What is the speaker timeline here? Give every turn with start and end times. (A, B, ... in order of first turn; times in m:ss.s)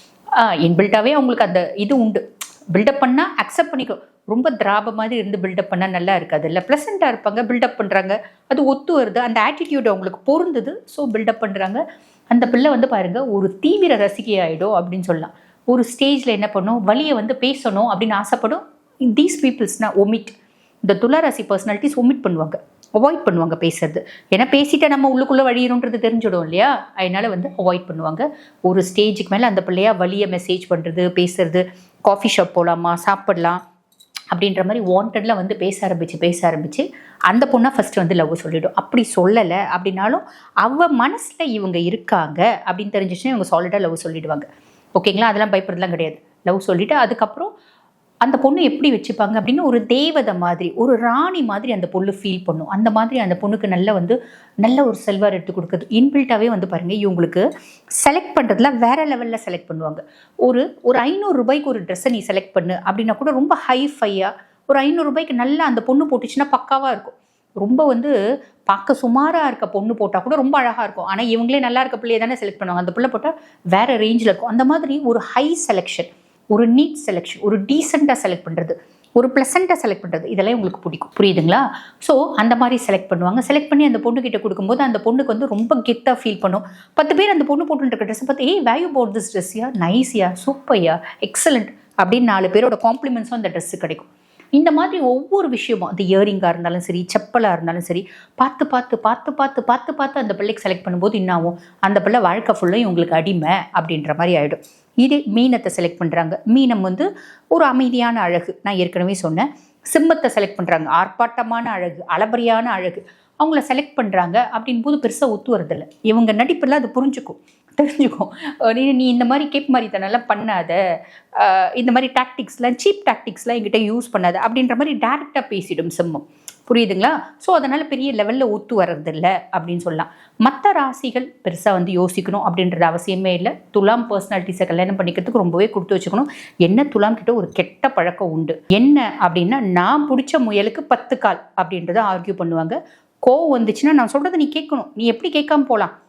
0:00.4-0:02.2 A
0:02.7-0:33.6 A
0:34.3-0:47.5 A
0:48.2-0:57.4 A
0:58.0-1:08.1 A
1:08.7-2:00.8 A
2:01.4-2:25.9 A